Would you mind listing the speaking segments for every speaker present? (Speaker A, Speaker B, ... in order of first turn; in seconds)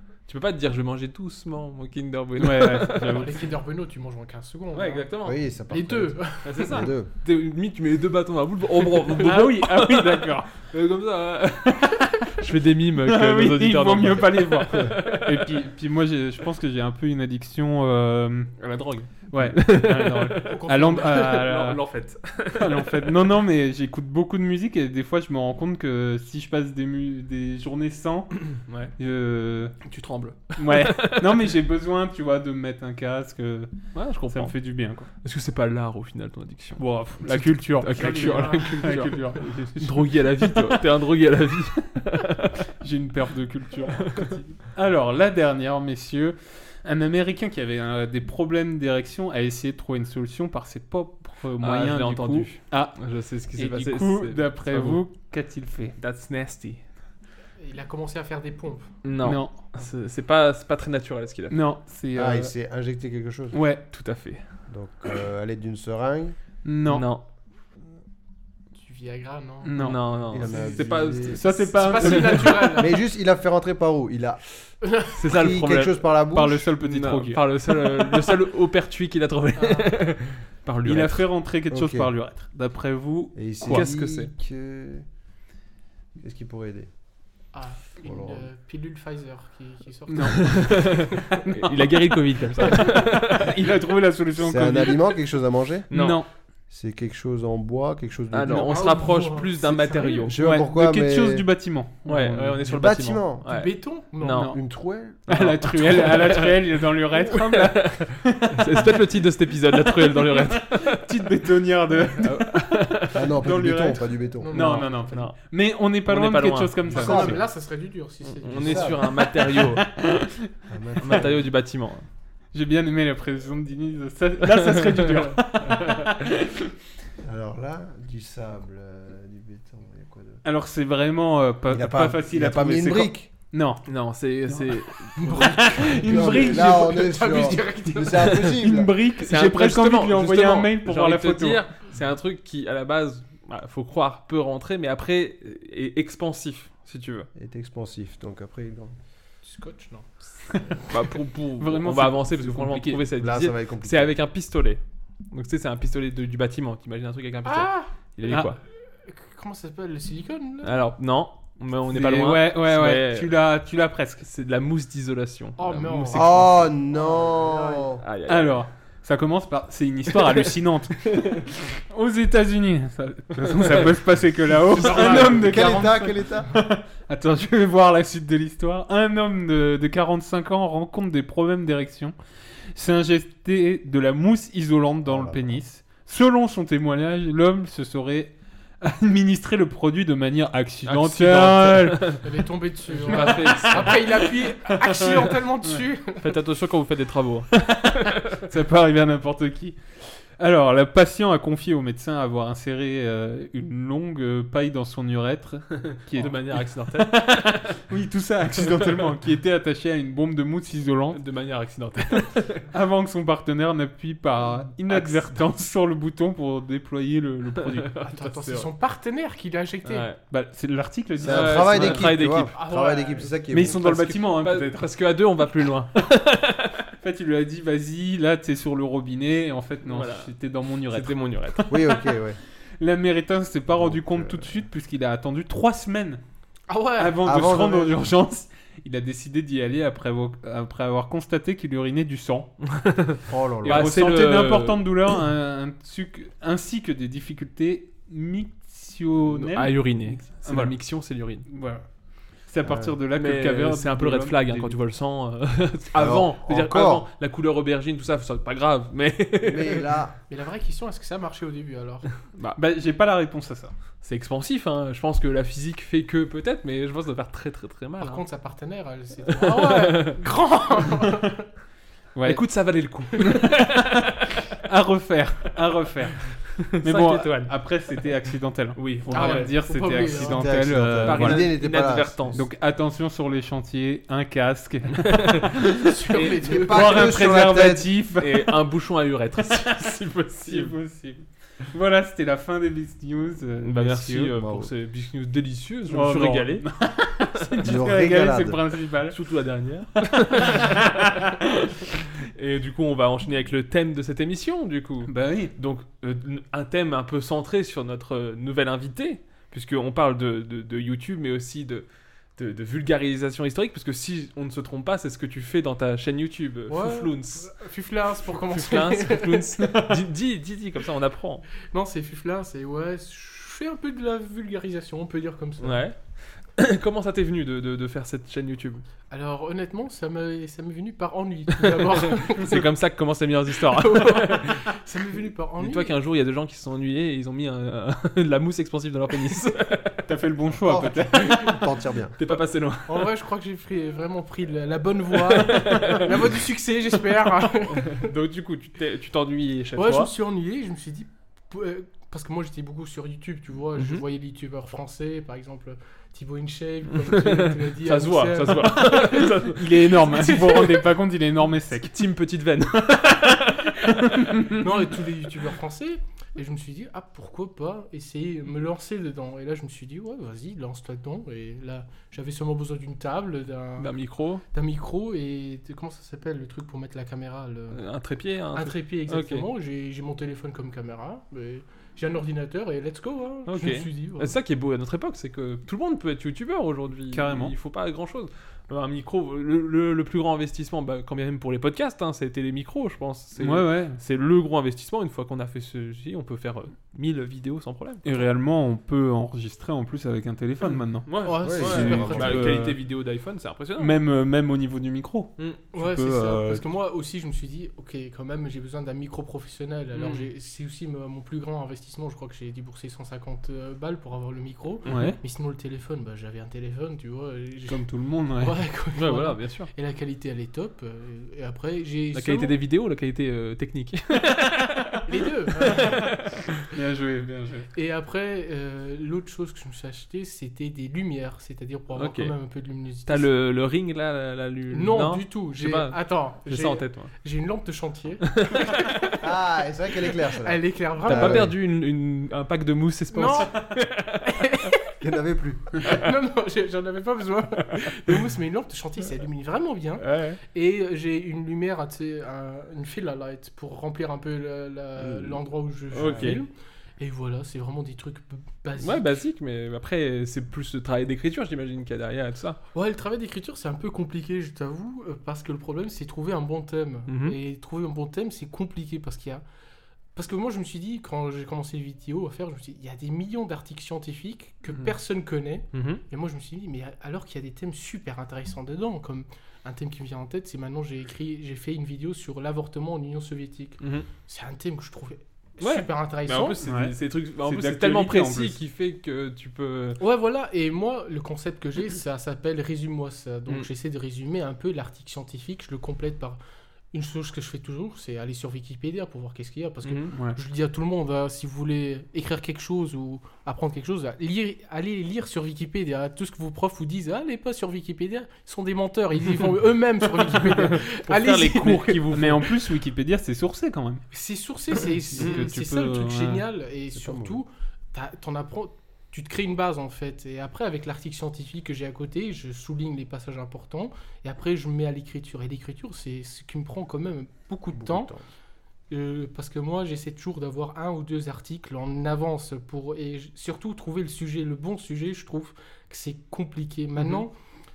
Speaker A: 0.3-3.3, 4.7-5.4, 6.4-15.5, 18.6-23.1, 28.5-28.9, 29.8-31.5, 33.9-34.6, 35.2-42.6, 44.0-44.4, 51.6-55.0, 56.0-56.8, 59.0-61.6, 63.9-64.4, 66.9-67.2, 69.8-72.5, 75.2-76.1, 76.8-81.3, 83.6-84.3, 90.2-93.5, 95.9-96.2, 98.3-100.4, 102.0-104.5, 105.3-106.6, 107.2-111.0, 112.2-113.3, 115.1-115.4, 116.1-116.8, 118.4-119.8, 121.0-122.0, 124.5-126.0, 133.8-135.8, 139.2-147.3, 150.9-158.6, 160.6-163.3, 164.2-166.7, 168.0-168.6, 170.1-170.5, 171.0-171.3, 173.5-173.8, 190.8-192.2, 192.9-194.1, 196.2-198.4, 205.8-207.8, 211.1-212.7, 214.9-215.2, 217.6-218.7, 219.8-220.2, 221.2-222.6, 223.6-226.8, 229.8-230.3, 230.9-231.8, 242.6-244.9, 249.3-251.4, 253.1-259.9, 262.3-262.6, 264.0-268.2, 269.3-270.1, 272.2-274.1, 276.6-277.5, 278.8-280.2, 281.0-282.4, 285.0-285.5, 288.2-290.7, 293.6-296.6, 299.1-300.8, 302.2-311.9, 312.4-317.5, 318.3-321.4, 325.6-328.8, 331.6-334.6, 335.6-340.0, 342.2-343.1, 345.3-346.1, 347.7-350.1, 356.9-359.8, 361.8-364.0, 373.8-374.4, 377.7-379.4, 383.5-398.1, 401.1-403.9, 405.4-405.7, 409.9-410.3, 414.9-415.1, 418.9-419.7, 422.1-424.9, 425.6-426.4, 431.9-432.3, 433.1-437.1, 438.3-438.8, 441.1-444.2, 450.0-450.4, 455.9-456.4, 458.8-462.6, 467.1-467.4, 475.7-476.0, 483.8-484.1, 485.6-490.0, 499.8-500.1, 510.2-512.5
Speaker B: 2.4-3.5, 9.2-10.5, 13.0-18.5, 19.3-21.8, 22.5-29.8, 30.6-33.7, 34.3-35.1, 36.8-40.8, 42.8-53.0, 53.5-56.0, 59.2-59.6, 61.5-62.5, 63.5-63.8, 66.6-67.1, 69.6-70.2, 71.3-72.8, 76.3-77.4, 80.8-83.8, 90.1-91.7, 92.8-95.0, 95.9-96.3, 100.3-102.7, 105.3-108.8, 109.9-117.4, 119.5-120.5, 122.5-126.5, 130.4-133.8, 135.3-137.0, 138.2-141.6, 150.5-150.8, 151.6-153.1, 158.3-158.5, 161.9-164.2, 168.3-182.1, 182.7-192.2, 193.0-194.0, 194.8-195.8, 198.5-211.2, 212.7-218.0, 220.3-222.2, 223.5-224.9, 227.0-232.0, 232.8-236.2, 237.0-242.5, 243.6-250.7, 251.5-251.8, 252.4-254.8, 262.5-263.7, 272.1-272.4, 273.2-273.9, 274.6-281.5, 282.3-285.9, 286.5-288.5, 290.4-294.3, 295.9-299.2, 300.3-301.3, 305.1-305.5, 340.1-341.4, 359.6-361.9, 364.1-364.6, 387.1-387.5, 393.4-394.0, 398.0-402.8, 403.8-406.6, 414.9-415.2, 417.7-418.6, 426.7-427.7, 486.6-488.6, 500.1-500.4, 512.1-514.0, 515.1-516.4
Speaker C: 3.0-5.1, 5.7-6.7, 20.4-21.5, 38.0-39.4, 57.6-58.9, 68.8-69.8, 70.4-72.9, 74.8-75.1, 79.5-79.9, 87.5-91.4, 98.6-100.3, 103.5-104.5, 114.4-115.2, 116.9-119.0, 135.2-138.4, 149.4-150.2, 157.4-157.9, 159.1-160.7, 165.6-167.9, 174.6-175.9, 192.2-196.2, 218.0-220.1, 222.5-223.3, 236.7-237.2, 260.3-262.1, 268.0-271.4, 279.1-280.4, 285.8-287.1, 316.7-319.5, 321.7-325.8, 329.1-332.6, 333.7-335.9, 342.9-348.1, 349.7-359.3, 360.0-360.9, 364.5-373.9, 374.5-377.8, 378.5-384.3, 401.2-402.6, 405.7-417.8, 418.4-422.6, 425.1-426.0, 427.7-433.3, 434.7-439.0, 440.4-441.5, 443.1-443.5, 444.2-444.8, 445.8-459.2, 462.7-469.4, 470.1-486.6, 490.0-496.4, 496.9-512.0, 514.1-528.1, 528.9-537.3
Speaker D: 5.2-7.1, 62.1-63.6, 64.7-66.3, 70.3-71.4, 72.8-74.4, 75.2-76.7, 81.7-82.1, 83.3-85.0, 86.2-86.9, 88.0-88.5, 94.4-95.9, 96.7-98.9, 100.3-101.4, 102.7-103.4, 104.5-105.3, 113.1-114.6, 116.9-117.4, 118.5-119.0, 120.7-121.5, 127.2-130.4, 131.7-133.3, 136.0-138.9, 147.3-148.9, 153.2-154.2, 166.1-168.0, 175.0-176.5, 185.0-185.6, 221.2-223.8, 231.7-232.4, 233.7-234.6, 237.2-238.0, 243.3-243.9, 252.6-253.0, 255.9-257.0, 259.4-260.1, 280.2-282.4, 286.4-287.9, 294.4-294.7, 297.6-298.6, 340.5-342.1, 401.4-402.6, 439.2-441.5, 445.0-445.8, 455.0-455.4, 516.9-517.4, 527.7-528.2